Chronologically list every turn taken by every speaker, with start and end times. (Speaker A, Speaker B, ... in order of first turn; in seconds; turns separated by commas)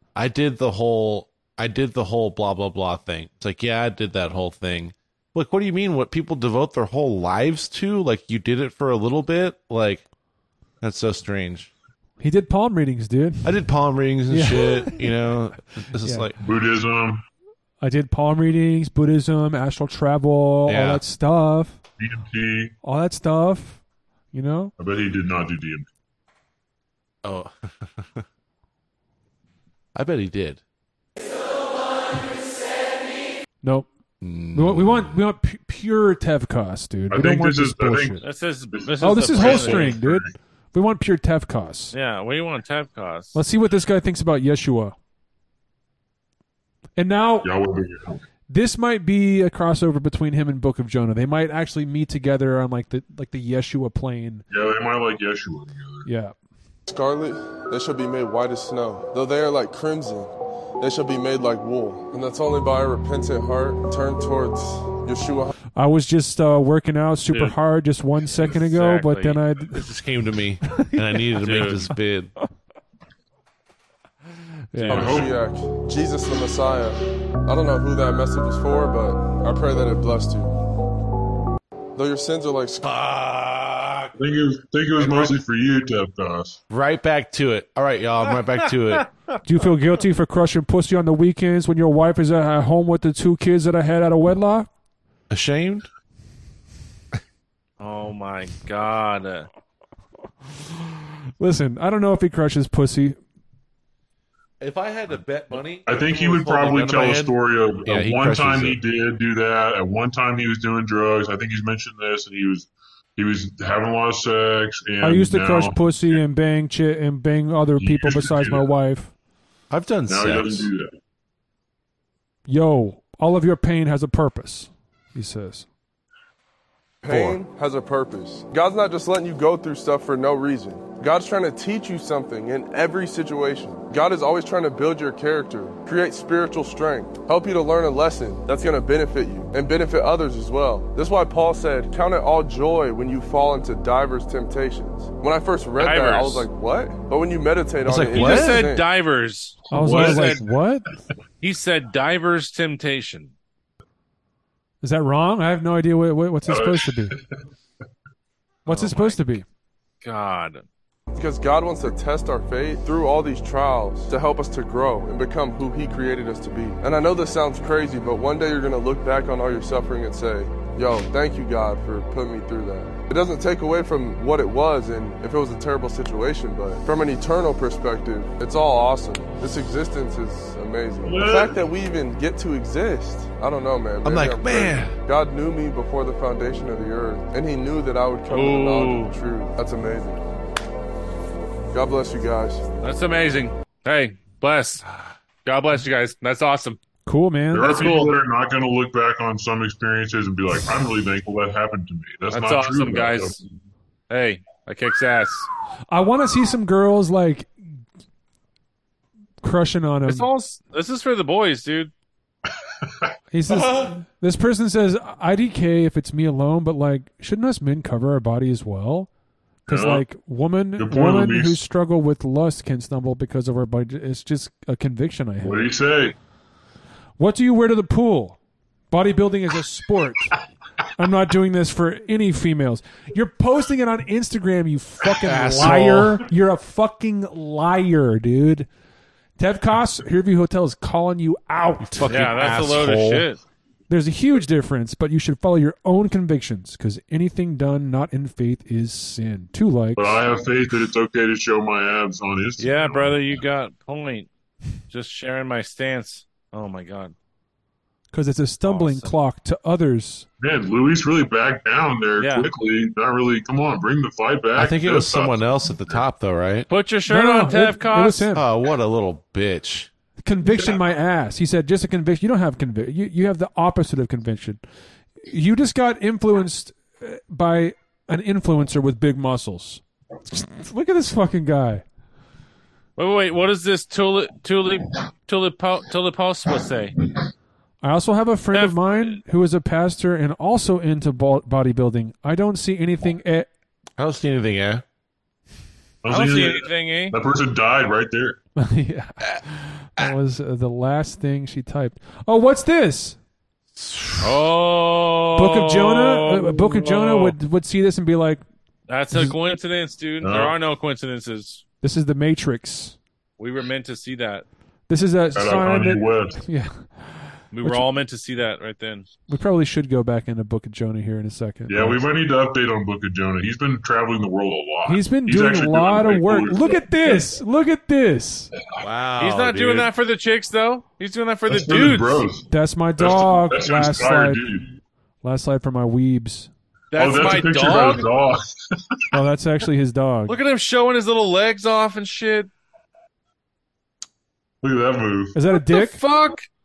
Speaker A: 0.1-10.0, Speaker A: 10.8-11.7, Speaker B: 12.2-13.6, Speaker A: 13.4-16.3, Speaker B: 14.3-15.1, Speaker B: 16.0-16.3, Speaker C: 16.4-17.2, Speaker B: 17.8-21.8, Speaker A: 20.7-21.0, Speaker C: 22.0-22.7, Speaker B: 22.8-23.8, Speaker B: 24.3-24.7, Speaker C: 24.8-25.9, Speaker A: 27.2-28.2, Speaker A: 29.9-30.6, Speaker B: 33.6-33.9, Speaker A: 34.2-35.1, Speaker B: 34.5-38.2, Speaker C: 37.1-38.2, Speaker D: 38.2-40.0, Speaker C: 38.7-40.3, Speaker B: 39.0-41.9, Speaker D: 41.9-43.4, Speaker B: 43.3-45.0, Speaker B: 47.0-47.5, Speaker C: 47.4-48.2, Speaker B: 48.5-54.4, Speaker C: 54.5-56.1, Speaker B: 56.0-56.3, Speaker E: 56.9-65.5, Speaker B: 65.7-69.9, Speaker D: 67.3-67.6, Speaker D: 68.4-69.4, Speaker A: 69.7-72.3, Speaker B: 70.7-71.2, Speaker D: 71.4-71.9, Speaker B: 74.7-75.2, Speaker E: 74.9-80.5, Speaker C: 74.9-75.3, Speaker E: 82.0-82.9, Speaker A: 82.8-84.1, Speaker C: 84.2-86.6, Speaker A: 85.0-85.3, Speaker A: 86.7-89.1, Speaker B: 89.4-94.7, Speaker A: 95.3-95.9, Speaker D: 97.8-99.5, Speaker B: 101.4-103.2, Speaker A: 104.6-108.8, Speaker C: 105.8-116.2, Speaker B: 115.0-119.1, Speaker C: 117.8-118.6, Speaker A: 119.7-120.7, Speaker C: 120.1-120.9, Speaker B: 122.5-125.7, Speaker E: 127.0-148.9, Speaker A: 127.1-127.4, Speaker D: 145.8-146.5, Speaker A: 147.8-148.7, Speaker D: 148.1-150.4, Speaker B: 149.7-150.9, Speaker C: 149.7-150.4, Speaker D: 151.4-153.3, Speaker B: 154.8-157.2, Speaker C: 156.4-157.2, Speaker D: 158.7-159.3, Speaker B: 158.7-159.4, Speaker D: 160.0-160.7, Speaker E: 161.1-190.2, Speaker C: 181.0-181.6, Speaker A: 184.0-184.9, Speaker D: 188.3-189.1, Speaker E: 191.7-192.6, Speaker D: 192.8-194.8, Speaker D: 195.4-196.8, Speaker B: 197.1-198.0, Speaker C: 197.5-203.4, Speaker D: 197.6-198.1, Speaker D: 202.3-203.4, Speaker D: 204.1-205.5, Speaker B: 205.9-207.5, Speaker B: 209.4-210.3, Speaker D: 210.1-211.9, Speaker B: 213.3-219.1, Speaker C: 219.7-220.0, Speaker B: 219.7-225.7, Speaker C: 220.8-221.6, Speaker C: 225.4-226.1, Speaker B: 227.2-228.4, Speaker B: 228.9-230.3, Speaker B: 231.0-238.7, Speaker A: 235.2-236.2, Speaker B: 239.4-242.3, Speaker A: 241.8-243.3, Speaker D: 242.1-243.4, Speaker B: 243.9-250.2, Speaker C: 249.9-253.3, Speaker D: 252.6-254.3, Speaker D: 254.9-257.1, Speaker B: 258.1-260.2, Speaker D: 258.6-259.1, Speaker C: 260.4-266.0, Speaker D: 262.2-262.5, Speaker A: 264.6-266.7, Speaker D: 266.7-268.3, Speaker B: 267.1-268.4, Speaker A: 268.3-269.9, Speaker B: 270.2-274.6, Speaker B: 275.3-281.8, Speaker D: 283.0-286.9, Speaker B: 287.8-293.5, Speaker D: 288.5-289.2, Speaker A: 294.0-294.8, Speaker C: 296.0-298.4, Speaker D: 296.1-297.1, Speaker B: 298.6-303.2, Speaker A: 303.8-304.4, Speaker D: 304.2-307.4, Speaker B: 305.4-308.4, Speaker D: 308.9-311.6, Speaker C: 310.2-310.6, Speaker B: 311.8-312.9, Speaker D: 313.4-314.4, Speaker B: 314.9-317.9, Speaker C: 315.3-316.4, Speaker D: 317.5-319.1, Speaker B: 319.3-322.0, Speaker C: 321.7-327.2, Speaker B: 324.8-328.5, Speaker A: 328.8-329.9, Speaker D: 329.2-332.3, Speaker C: 331.5-334.8, Speaker B: 332.5-334.4, Speaker B: 335.2-336.5, Speaker D: 336.9-338.1, Speaker C: 336.9-339.0, Speaker B: 339.1-340.4, Speaker D: 340.3-342.5, Speaker C: 344.6-345.4, Speaker B: 345.3-346.0, Speaker D: 345.6-346.5